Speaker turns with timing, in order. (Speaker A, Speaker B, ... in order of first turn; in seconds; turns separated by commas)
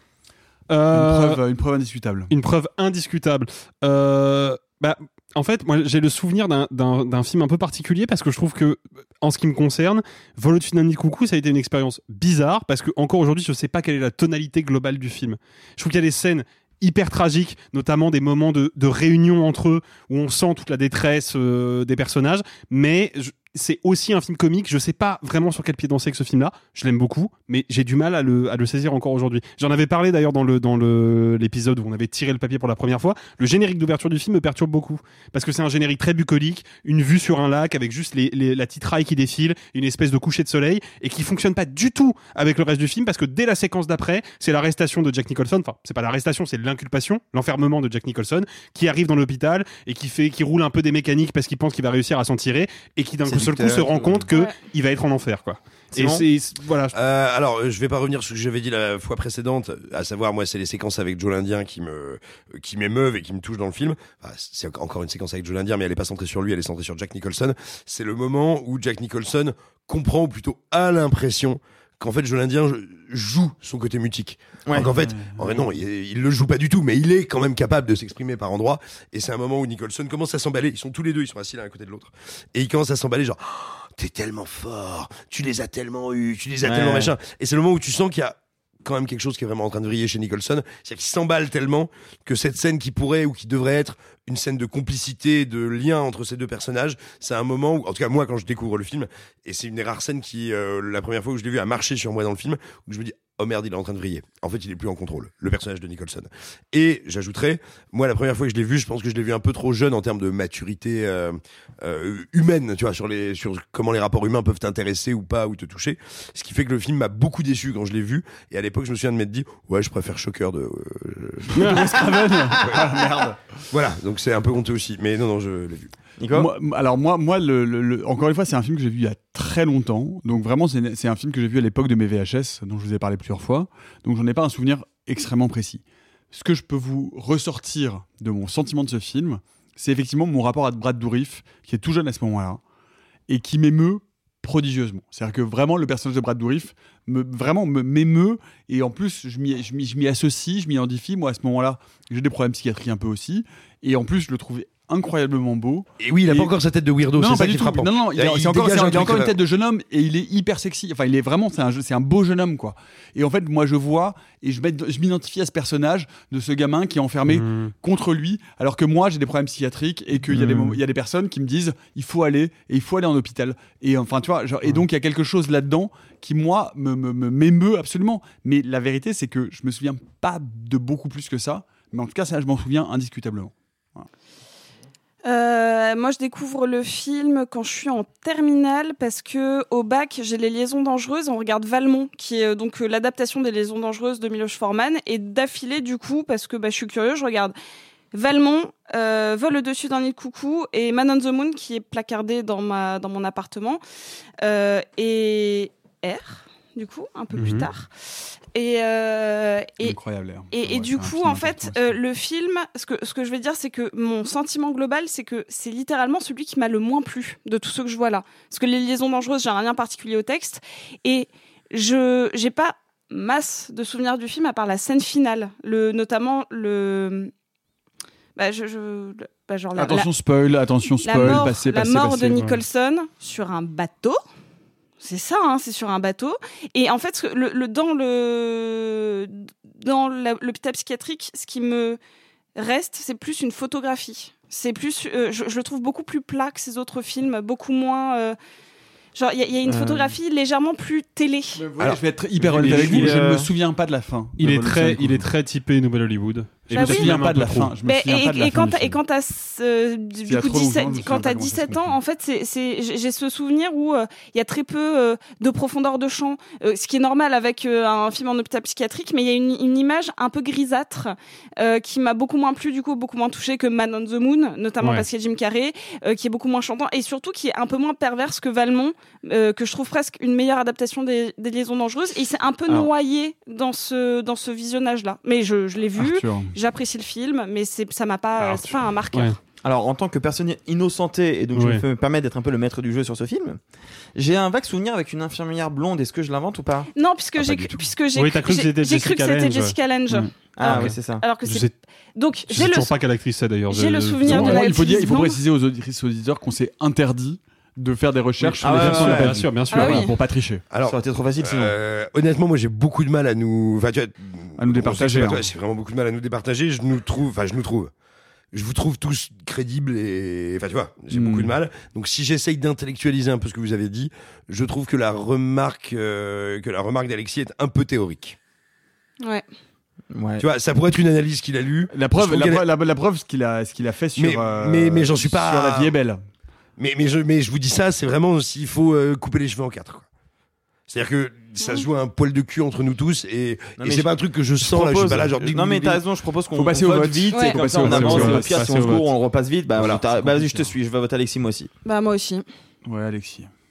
Speaker A: 0.7-1.4, Speaker B: 0.9-2.3, Speaker A: 2.3-56.9, Speaker C: 53.2-54.3, Speaker D: 54.3-54.5, Speaker C: 55.9-56.2, Speaker E: 56.9-122.0, Speaker C: 74.7-74.9, Speaker B: 74.8-75.7, Speaker C: 86.6-87.1, Speaker B: 121.5-123.4, Speaker A: 121.6-121.8, Speaker E: 122.6-123.0, Speaker E: 123.7-125.9, Speaker C: 126.2-126.5, Speaker B: 126.3-142.6, Speaker B: 143.3-156.5, Speaker E: 156.0-159.4, Speaker B: 157.1-184.1, Speaker A: 167.3-167.7, Speaker A: 170.3-170.8, Speaker D: 185.2-197.5, Speaker D: 198.1-203.8, Speaker D: 204.4-207.9, Speaker A: 207.3-207.7, Speaker D: 208.5-210.0, Speaker B: 209.8-212.0, Speaker D: 210.5-227.3, Speaker D: 228.3-230.1, Speaker B: 229.7-232.4, Speaker D: 231.0-234.2, Speaker A: 231.2-231.4, Speaker D: 235.0-242.0, Speaker D: 242.6-248.4, Speaker D: 249.2-251.6, Speaker B: 251.5-255.3, Speaker C: 252.5-253.5, Speaker A: 252.6-253.1, Speaker A: 254.4-257.8, Speaker B: 256.7-259.0, Speaker D: 256.7-257.1, Speaker D: 257.8-289.4, Speaker B: 260.2-261.9, Speaker B: 286.0-286.5, Speaker A: 288.4-289.3, Speaker C: 289.6-293.6, Speaker A: 291.5-291.8, Speaker C: 294.1-296.9, Speaker D: 296.9-302.9, Speaker E: 297.4-297.8, Speaker A: 298.1-299.7, Speaker C: 300.6-301.2, Speaker A: 300.6-301.7, Speaker A: 302.5-304.6, Speaker D: 303.7-305.4, Speaker B: 304.2-310.6, Speaker A: 308.4-310.0, Speaker C: 308.6-309.5, Speaker D: 309.7-310.1, Speaker E: 310.7-317.9, Speaker C: 310.8-311.7, Speaker B: 314.6-315.4, Speaker E: 318.5-328.4, Speaker B: 321.1-321.6, Speaker C: 330.1-330.5, Speaker E: 330.4-332.7, Speaker B: 331.9-336.2, Speaker E: 334.1-335.9, Speaker E: 336.8-340.1, Speaker E: 340.9-346.0, Speaker C: 343.8-351.7, Speaker B: 346.5-348.9, Speaker D: 347.3-347.6, Speaker A: 347.7-349.1, Speaker E: 349.8-350.0, Speaker B: 349.8-350.7, Speaker D: 351.8-352.4, Speaker B: 352.8-353.5